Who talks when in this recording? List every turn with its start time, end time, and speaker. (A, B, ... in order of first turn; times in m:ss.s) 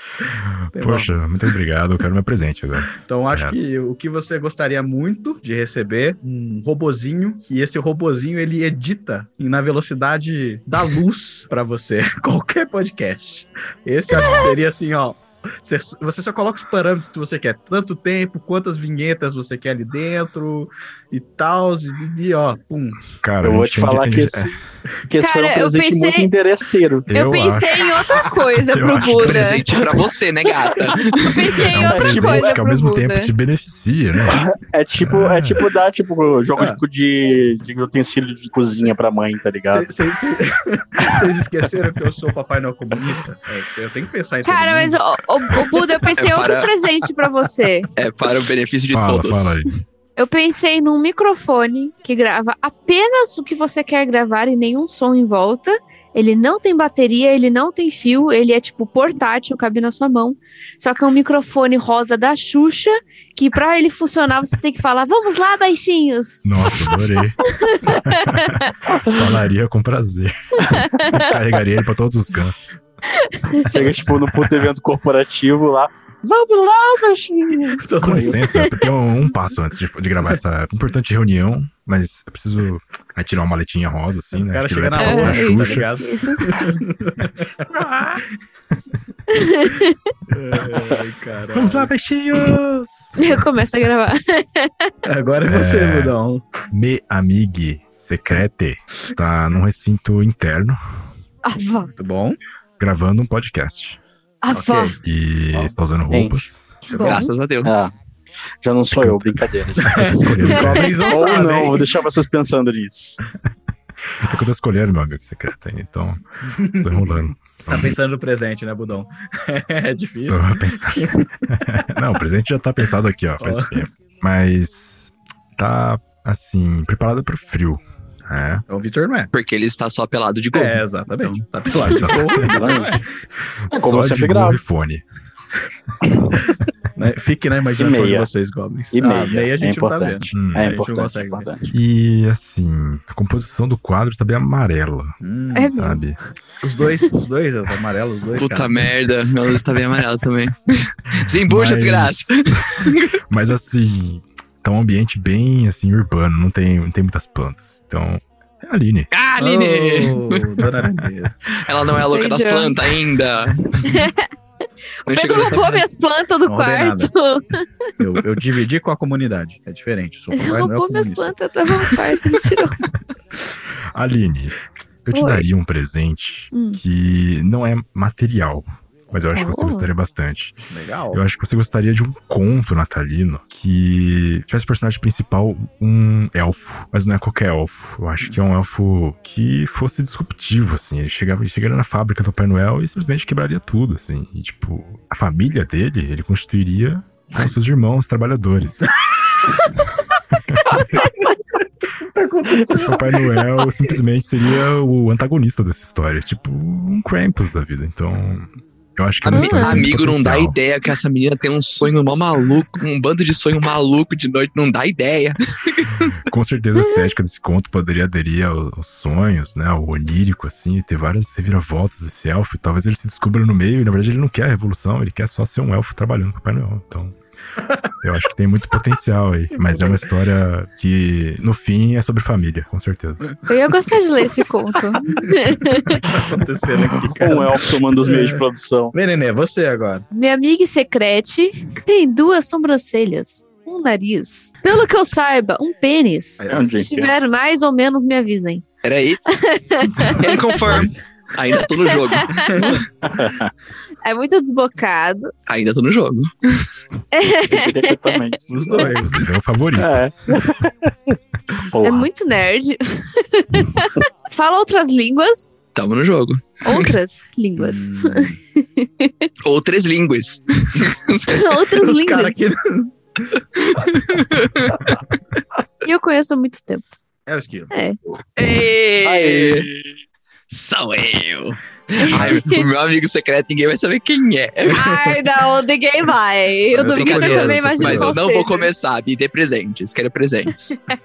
0:00.2-0:03.6 A
0:00.8-0:01.1 B
0:03.0-0:23.1 B
0:23.2-0:24.5 A
0:23.4-0:24.5 C
0:25.1-0:27.0 C
0:25.2-0:26.3 D
0:27.1-0:29.7 A
0:27.1-0:29.6 D
0:29.2-0:31.2 E
0:31.1-0:33.3 D
0:31.6-0:35.7 A
0:31.8-0:32.6 C
0:34.3-0:39.9 C
0:39.7-0:46.0 B
0:44.4-0:47.9 D
0:46.2-0:46.7 E
0:48.0-0:49.6 E
0:48.9-0:49.7 A
0:50.2-1:06.4 D
1:06.4-1:07.4 A
1:07.6-1:08.2 D
1:08.1-1:12.7 A
1:11.0-1:11.3 D
1:13.2-1:13.6 D
1:13.7-1:18.4 C
1:17.8-1:18.7 B
1:18.0-1:25.9 A
1:24.3-1:27.7 B
1:25.0-1:26.4 D
1:29.3-1:29.9 D
1:30.3-1:32.6 B
1:31.5-1:33.4 A
1:33.2-1:34.9 D
1:35.0-1:36.5 B
1:35.5-1:36.1 A
1:36.7-1:40.8 A
1:41.4-1:41.9 D
1:41.9-1:42.4 B
1:42.8-1:44.0 A
1:44.4-1:44.9 D
1:44.5-1:45.0 B
1:45.0-1:46.6 A
1:45.5-1:46.4 C
1:46.9-1:47.2 B
1:46.9-1:47.3 D
1:47.0-1:47.9 E
1:47.6-1:47.9 C
1:48.6-1:50.0 C
1:48.9-1:51.0 A
1:49.8-1:51.9 B
1:50.6-1:51.0 D
1:51.0-1:53.2 C
1:54.2-1:57.9 A
1:56.6-2:01.5 B
2:00.2-2:08.6 A
2:03.4-2:03.8 B
2:08.7-2:09.3 B
2:09.3-2:11.4 E
2:10.5-2:13.0 B
2:11.8-2:12.5 A
2:12.5-2:12.9 C
2:13.7-2:15.0 A
2:13.8-2:14.6 C
2:16.5-2:21.5 B
2:17.8-2:18.3 C
2:18.9-2:21.7 C
2:20.3-2:20.7 A
2:21.7-2:25.2 A
2:25.2-2:25.8 B
2:25.5-2:26.0 D
2:25.7-2:26.2 A
2:26.6-2:28.9 B
2:28.4-2:33.1 E
2:31.5-2:39.1 A
2:39.1-2:40.4 E
2:39.4-2:41.4 B
2:41.6-2:43.6 E
2:42.1-2:42.8 D
2:43.4-2:43.8 B
2:43.8-2:44.3 D
2:45.1-2:45.8 E
2:45.1-2:47.6 D
2:45.3-2:45.8 B
2:46.5-2:47.1 B
2:48.0-2:51.9 B
2:50.3-2:52.8 D
2:53.9-3:00.6 A
2:55.1-2:55.4 D
2:56.5-2:56.8 D
2:59.3-2:59.9 D
3:00.7-3:01.2 B
3:01.1-3:18.8 A
3:20.5-3:21.0 A
3:20.7-3:21.1 B
3:20.7-3:21.3 D
3:21.8-3:23.4 B
3:22.7-3:30.6 A
3:29.2-3:36.0 E
3:29.3-3:29.9 D
3:36.3-3:47.2 A
3:36.8-3:37.0 D
3:48.0-3:53.3 A
3:49.7-3:50.0 B
3:53.5-3:56.0 D
3:55.9-4:00.0 B
3:57.2-3:58.9 C
4:00.1-4:08.6 D
4:06.4-4:06.9 B
4:06.5-4:07.1 C
4:08.8-4:09.2 E
4:09.3-4:10.6 D
4:10.1-4:12.7 E
4:10.3-4:10.9 B
4:11.8-4:12.7 D
4:12.5-4:12.8 B
4:13.0-4:13.5 C
4:14.0-4:15.3 D
4:15.5-4:16.7 E
4:17.1-4:18.2 D
4:17.4-4:19.0 C
4:18.5-4:19.2 B
4:19.0-4:20.0 A
4:19.8-4:21.2 C
4:21.7-4:22.1 C
4:21.8-4:25.5 D
4:25.7-4:26.9 E
4:26.6-4:29.3 D
4:27.6-4:28.4 B
4:29.4-4:31.4 E
4:31.3-4:32.4 D
4:31.7-4:34.7 B
4:33.7-4:34.7 E
4:35.8-4:36.9 D
4:37.3-4:37.9 B
4:37.7-4:38.0 D
4:38.4-4:39.7 E
4:39.0-4:39.9 C
4:40.5-4:44.8 E
4:42.1-4:42.6 B
4:44.7-4:48.7 D
4:44.8-4:45.2 B
4:46.7-4:48.2 B
4:46.9-4:50.8 E